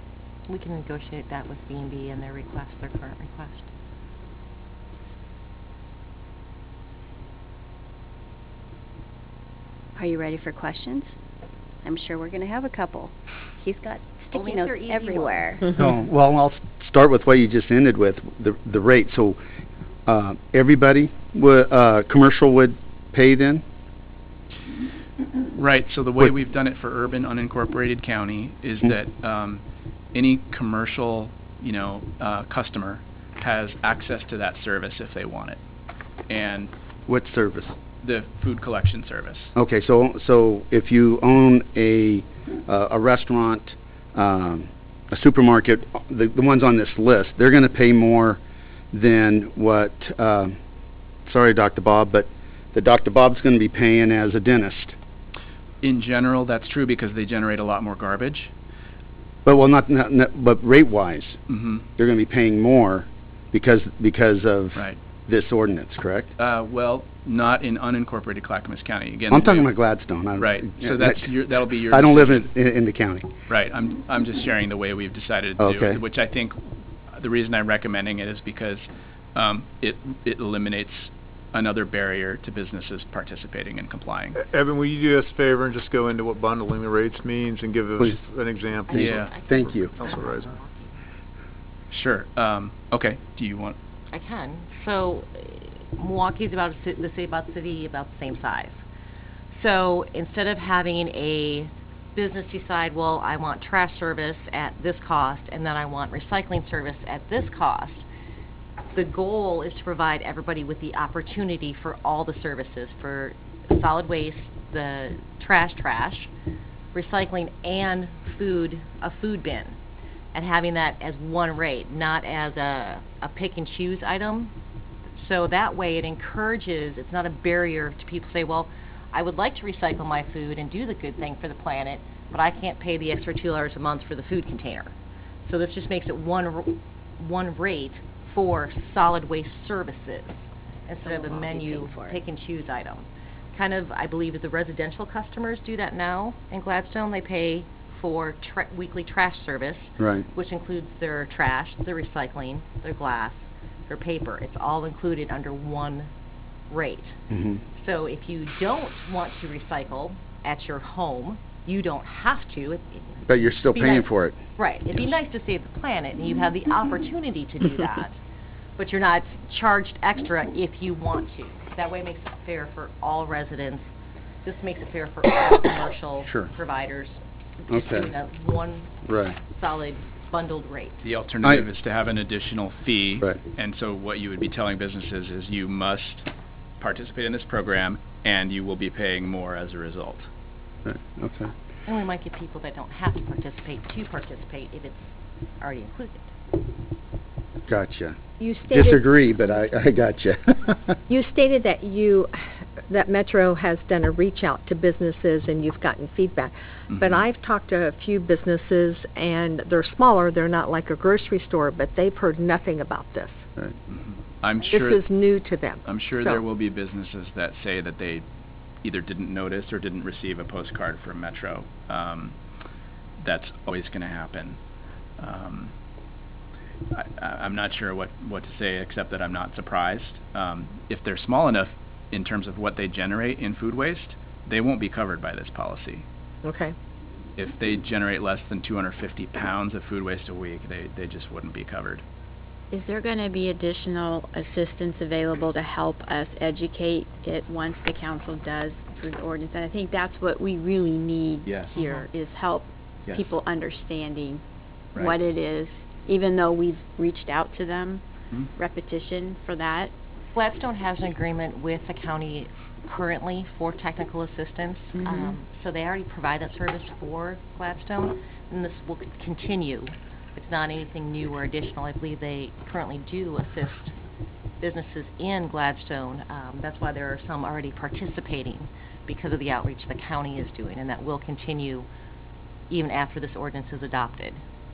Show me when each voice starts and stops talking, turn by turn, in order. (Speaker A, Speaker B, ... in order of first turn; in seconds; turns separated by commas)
Speaker A: 0.5-3.7, Speaker B: 9.9-11.1, Speaker B: 11.8-15.7, Speaker A: 14.3-15.6, Speaker C: 15.7-19.4, Speaker C: 20.1-23.6, Speaker D: 25.5-29.6, Speaker D: 30.1-35.6, Speaker D: 36.3-36.7, Speaker C: 37.1-37.8, Speaker D: 38.0-39.5, Speaker C: 39.5-48.4, Speaker C: 48.9-50.5, Speaker C: 51.3-55.0, Speaker D: 55.8-58.5, Speaker C: 59.4-61.4, Speaker D: 61.5-61.9, Speaker C: 62.0-66.3, Speaker D: 66.4-69.7, Speaker C: 69.3-71.3, Speaker D: 70.3-72.5, Speaker C: 71.8-73.3, Speaker D: 73.5-84.4, Speaker C: 75.6-76.0, Speaker E: 84.3-89.3, Speaker A: 88.9-91.0, Speaker C: 88.9-89.9, Speaker D: 88.9-89.3, Speaker E: 90.0-90.5, Speaker D: 91.9-93.8, Speaker A: 94.1-98.8, Speaker A: 99.5-108.0, Speaker A: 108.9-116.3, Speaker A: 116.9-119.8, Speaker A: 120.3-124.5, Speaker A: 125.1-134.9, Speaker A: 135.4-156.1, Speaker B: 141.0-142.2, Speaker C: 150.0-150.2, Speaker A: 156.7-157.2, Speaker C: 157.3-157.6, Speaker A: 157.8-168.2, Speaker C: 163.3-164.4, Speaker A: 168.8-173.9, Speaker A: 174.4-181.0, Speaker C: 176.2-176.5, Speaker C: 177.7-178.1, Speaker C: 179.1-179.4, Speaker D: 181.0-186.3, Speaker D: 186.8-190.3, Speaker C: 190.8-191.5, Speaker A: 191.8-196.3, Speaker C: 197.7-198.2, Speaker F: 198.4-199.0, Speaker C: 198.7-200.9, Speaker F: 201.1-213.4, Speaker D: 206.9-207.2, Speaker D: 213.9-215.0, Speaker F: 214.7-216.4, Speaker D: 215.8-218.2, Speaker D: 218.8-222.3, Speaker D: 223.2-224.6, Speaker D: 225.2-225.7, Speaker D: 226.9-236.0, Speaker F: 236.4-236.7, Speaker D: 237.4-242.0, Speaker G: 242.7-254.4, Speaker D: 251.4-251.7, Speaker A: 251.8-252.0, Speaker G: 254.9-258.0, Speaker G: 258.6-259.9, Speaker A: 260.3-273.9, Speaker A: 274.6-281.9, Speaker A: 282.7-284.4